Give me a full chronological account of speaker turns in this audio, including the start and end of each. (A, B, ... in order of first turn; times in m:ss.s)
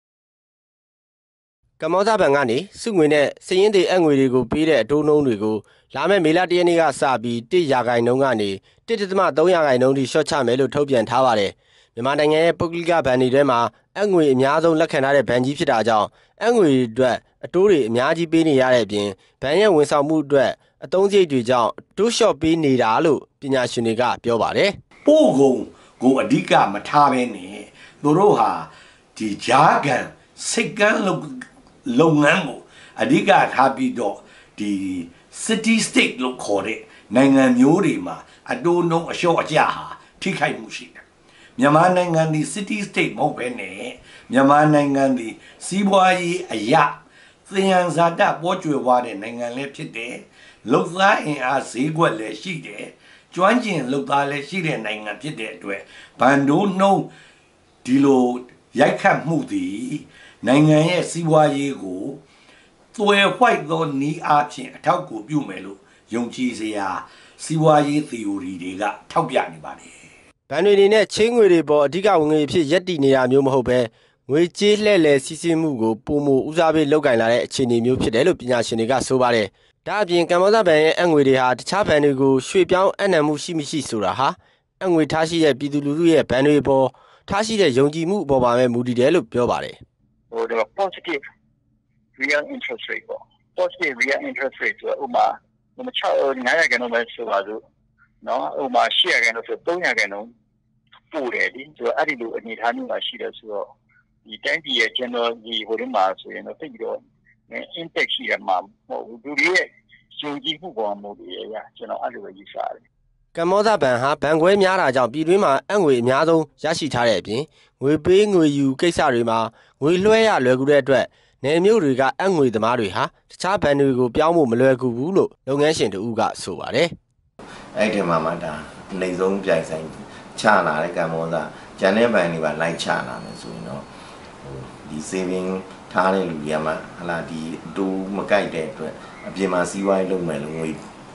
0:01.8-0:24.8 A
0:25.0-0:41.0 B
0:41.6-0:57.1 B
0:57.8-1:02.2 B
1:02.9-1:10.1 B
1:10.5-1:29.8 A
1:30.3-1:31.2 C
1:32.2-1:37.6 C
1:38.2-1:40.3 C
1:41.1-1:43.6 C
1:44.2-1:52.8 C
1:53.3-2:06.9 A
2:07.7-2:13.9 D
2:14.4-2:20.8 D